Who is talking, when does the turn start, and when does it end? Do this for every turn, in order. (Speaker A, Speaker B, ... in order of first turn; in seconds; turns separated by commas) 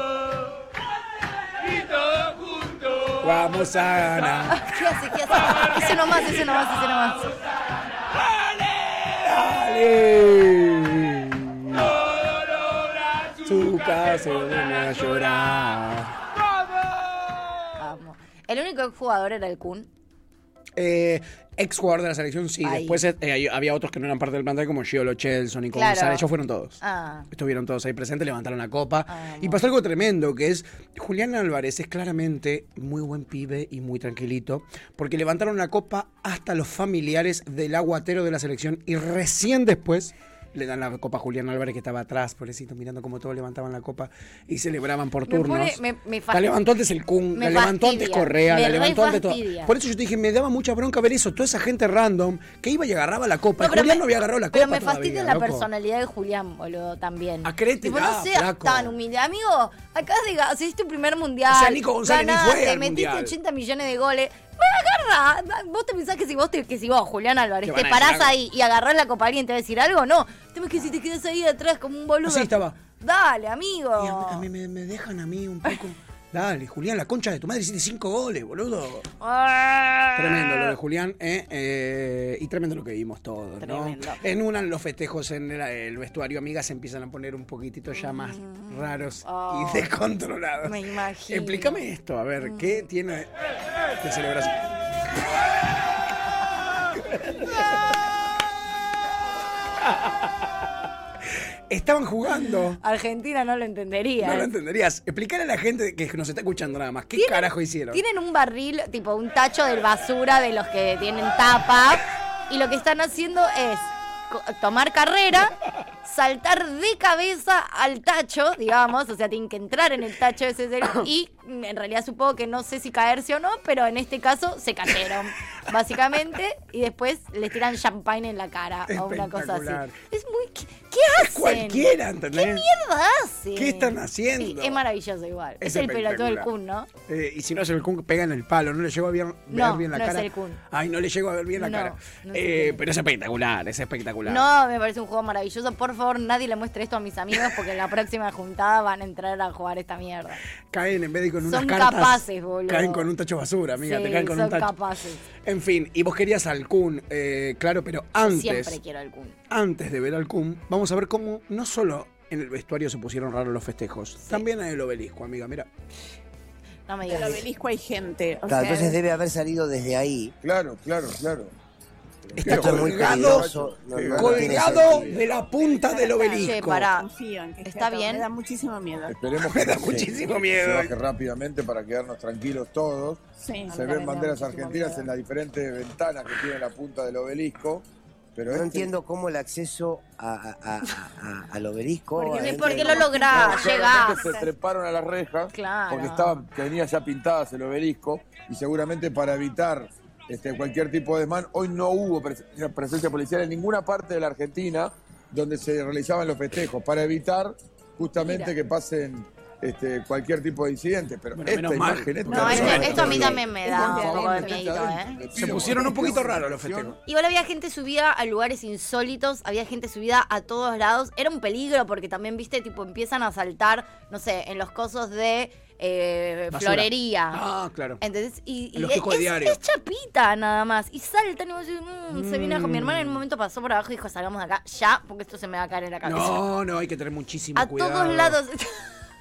Speaker A: 3.2-4.6, Speaker B: 4.5-7.3, Speaker A: 5.4-5.7, Speaker A: 8.3-12.1, Speaker A: 13.4-16.2, Speaker B: 17.8-19.9, Speaker A: 20.8-26.8, Speaker B: 22.6-23.0, Speaker B: 25.7-26.2, Speaker B: 26.8-27.3, Speaker A: 27.3-55.7, Speaker B: 29.1-29.7, Speaker B: 45.3-46.5, Speaker B: 47.4-49.7, Speaker B: 53.6-74.5, Speaker A: 57.4-59.0, Speaker A: 61.5-63.4, Speaker A: 67.6-68.4, Speaker A: 72.2-72.8, Speaker A: 74.0-79.1, Speaker B: 79.2-80.7, Speaker A: 80.2-93.3, Speaker B: 83.6-84.2, Speaker B: 88.0-89.9, Speaker B: 90.6-91.8, Speaker A: 94.0-94.5, Speaker A: 97.1-97.5, Speaker A: 101.7-102.8, Speaker B: 102.8-104.5, Speaker A: 104.2-108.0, Speaker B: 107.2-136.9, Speaker A: 128.9-130.0, Speaker A: 131.1-132.7, Speaker A: 133.5-134.8, Speaker A: 135.6-136.5, Speaker A: 137.1-144.5, Speaker B: 139.5-140.6, Speaker B: 141.6-142.8, Speaker B: 144.3-150.4, Speaker A: 150.7-154.7, Speaker B: 151.4-153.1, Speaker B: 153.8-155.2, Speaker A: 155.4-158.8, Speaker B: 158.2-159.4, Speaker A: 159.5-165.7, Speaker B: 166.9-167.4, Speaker C: 167.0-169.0, Speaker D: 168.5-170.3, Speaker E: 170.4-171.5, Speaker E: 172.3-175.2, Speaker D: 172.3-175.1, Speaker A: 172.4-173.6, Speaker A: 174.1-176.9, Speaker B: 175.9-177.1, Speaker C: 176.4-179.2, Speaker B: 177.7-178.3, Speaker E: 179.1-187.8, Speaker A: 179.5-180.9, Speaker C: 183.4-185.1, Speaker E: 188.4-188.9, Speaker D: 188.5-193.2, Speaker B: 192.2-194.4, Speaker C: 192.2-194.4, Speaker E: 193.3-217.0, Speaker B: 195.5-196.4, Speaker B: 208.2-208.5, Speaker A: 211.3-213.4, Speaker B: 212.3-215.3, Speaker C: 212.3-215.0, Speaker A: 215.3-217.0, Speaker B: 217.1-227.4, Speaker A: 226.5-228.0, Speaker B: 228.0-236.4, Speaker A: 228.8-229.6, Speaker A: 232.1-233.2, Speaker A: 236.0-238.4, Speaker B: 237.6-238.7